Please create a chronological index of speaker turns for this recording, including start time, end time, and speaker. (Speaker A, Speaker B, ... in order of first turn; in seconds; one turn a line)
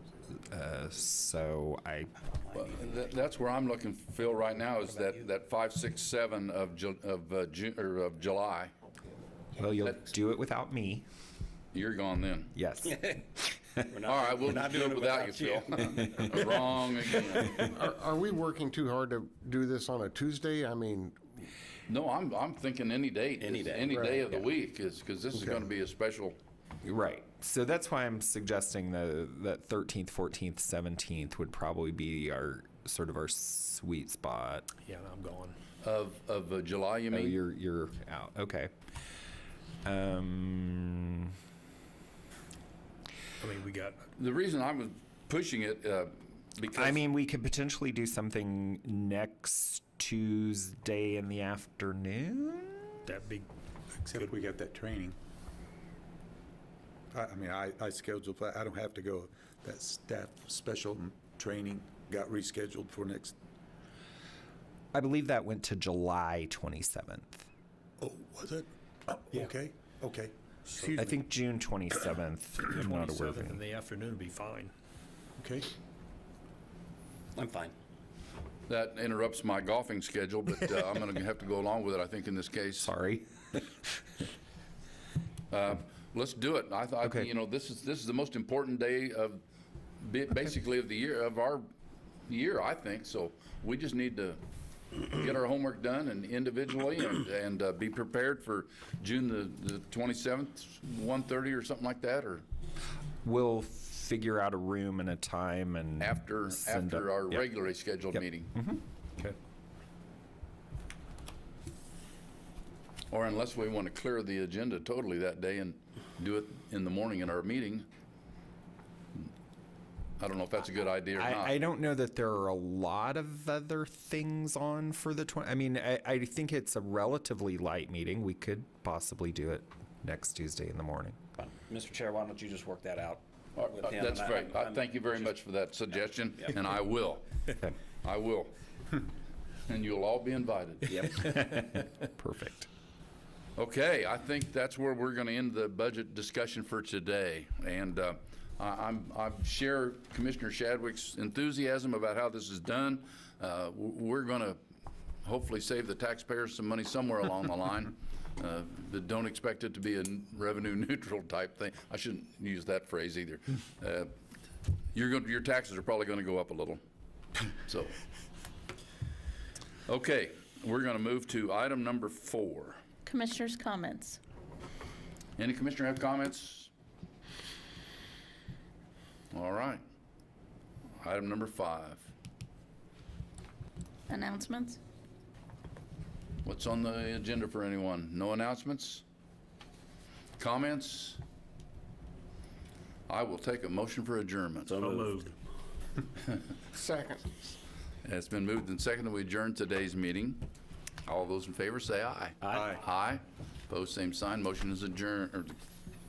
Speaker A: 0.3-2.1
Speaker B: 2.5-8.7
Speaker A: 9.6-11.1
Speaker B: 11.7-12.5
Speaker A: 12.5-13.5
Speaker C: 13.9-15.8
Speaker B: 14.0-17.7
Speaker D: 17.5-21.3
Speaker B: 21.9-26.4
Speaker C: 23.4-23.9
Speaker D: 23.8-24.2
Speaker A: 26.8-34.7
Speaker E: 34.8-35.6
Speaker B: 35.8-37.4
Speaker A: 37.1-38.7
Speaker A: 39.9-41.3
Speaker E: 43.4-44.1
Speaker B: 44.2-47.0
Speaker A: 46.7-53.1
Speaker E: 53.1-53.5
Speaker F: 54.0-55.2
Speaker F: 57.1-63.4
Speaker A: 64.9-67.5
Speaker F: 68.0-71.1
Speaker A: 71.0-73.6
Speaker E: 72.8-74.7
Speaker F: 75.4-75.7
Speaker C: 77.4-77.7
Speaker B: 78.7-82.9
Speaker A: 82.8-83.6
Speaker B: 85.5-89.4
Speaker A: 87.0-87.3
Speaker B: 90.0-91.7
Speaker B: 92.3-94.4
Speaker B: 95.0-102.4
Speaker A: 103.2-107.5
Speaker B: 106.0-108.5
Speaker A: 108.1-108.8
Speaker B: 113.1-117.9
Speaker B: 120.2-121.6
Speaker A: 121.2-131.2
Speaker C: 131.4-135.2
Speaker B: 133.6-138.5
Speaker B: 139.7-141.3
Speaker C: 140.9-141.2
Speaker A: 141.2-142.7
Speaker B: 143.6-154.6
Speaker B: 155.2-164.1
Speaker B: 164.9-166.8
Speaker B: 167.7-167.9
Speaker B: 169.9-172.8
Speaker G: 173.1-174.2
Speaker B: 175.4-176.7
Speaker B: 179.3-179.8
Speaker B: 181.0-182.1
Speaker G: 184.1-184.8
Speaker B: 186.4-189.0
Speaker B: 190.4-191.2
Speaker B: 193.1-194.8
Speaker C: 194.7-195.3
Speaker E: 194.8-195.3
Speaker D: 196.7-197.3
Speaker B: 198.0-200.4
Speaker B: 201.1-205.6
Speaker F: 202.5-202.8